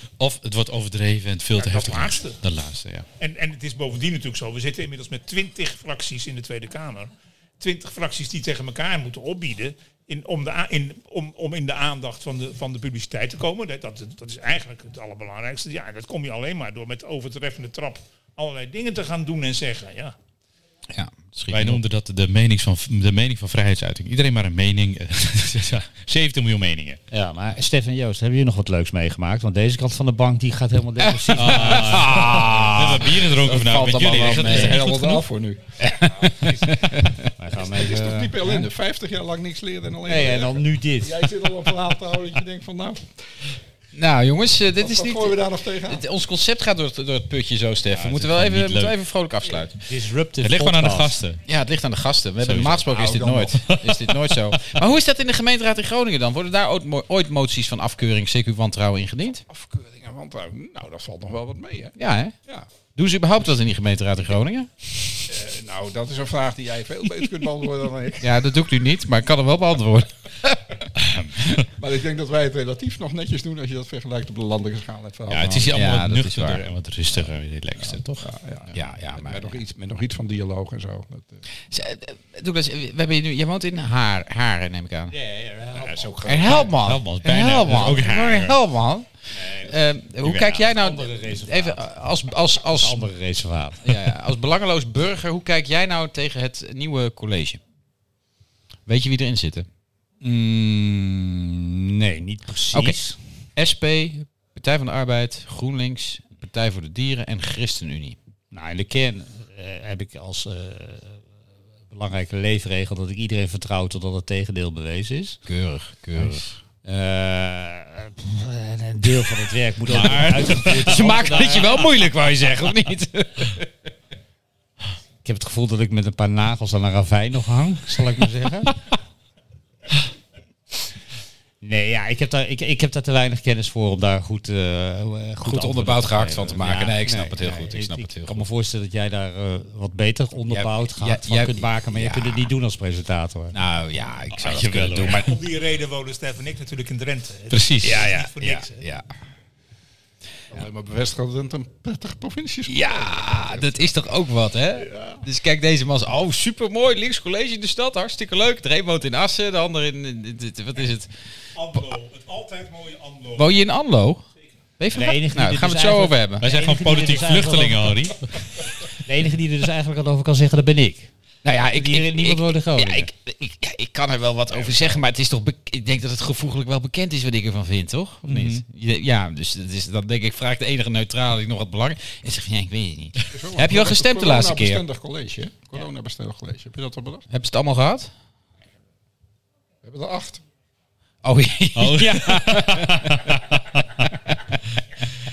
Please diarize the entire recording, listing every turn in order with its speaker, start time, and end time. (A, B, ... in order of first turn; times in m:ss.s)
0:00.2-0:03.1 A
0:01.5-0:02.4 B
0:03.2-0:20.2 B
0:20.9-0:21.8 C
0:21.5-0:27.0 A
0:27.1-0:32.8 D
0:31.2-0:34.8 C
0:31.3-0:35.2 A
0:33.4-0:43.5 E
0:37.4-0:38.7 D
0:40.0-0:41.2 D
0:43.9-0:49.8 C
0:44.7-0:46.0 E
0:47.9-0:48.9 A
0:49.8-0:51.2 D
0:50.4-0:51.4 A
0:51.4-0:59.4 C
0:52.4-0:52.8 A
0:52.8-0:53.5 E
0:53.7-0:54.7 A
0:59.5-1:02.7 E
1:02.0-1:02.3 C
1:03.0-1:05.2 C
1:05.3-1:08.4 E
1:08.2-1:10.8 C
1:11.8-1:15.7 E
1:15.3-1:18.3 A
1:15.7-1:16.7 C
1:17.8-1:21.4 E
1:18.7-1:19.5 C
1:21.7-1:25.1 C
1:25.1-1:26.6 D
1:25.8-1:26.7 E
1:26.2-1:33.0 C
1:26.7-1:28.5 A
1:29.3-1:31.8 D
1:32.7-1:33.9 D
1:33.8-1:37.6 C
1:38.9-1:39.7 C
1:40.2-1:43.2 D
1:42.7-1:43.0 C
1:43.6-1:48.2 C
1:48.5-1:51.2 D
1:51.9-1:55.4 D
1:55.4-1:56.6 C
1:56.1-2:02.9 D
1:59.8-2:01.0 A
1:59.9-2:03.6 C
2:05.2-2:08.8 D
2:11.6-2:23.5 D
2:15.4-2:18.4 C
2:20.5-2:22.4 C
2:23.5-2:25.3 C
2:24.3-2:25.2 A
2:25.1-2:28.8 B
2:27.5-2:28.1 A
2:27.8-2:29.0 C
2:30.5-2:34.1 E
2:32.7-2:41.1 C
2:34.8-2:35.2 E
2:41.5-2:43.5 B
2:43.4-2:44.2 C
2:44.8-2:46.5 C
2:44.9-2:48.0 D
2:46.4-2:48.4 A
2:49.0-2:51.1 D
2:51.4-3:04.8 C
2:51.7-2:53.1 D
2:58.3-2:58.6 A
3:03.3-3:07.2 E
3:07.3-3:08.1 C
3:09.8-3:10.4 E
3:11.2-3:13.3 C
3:11.7-3:14.1 A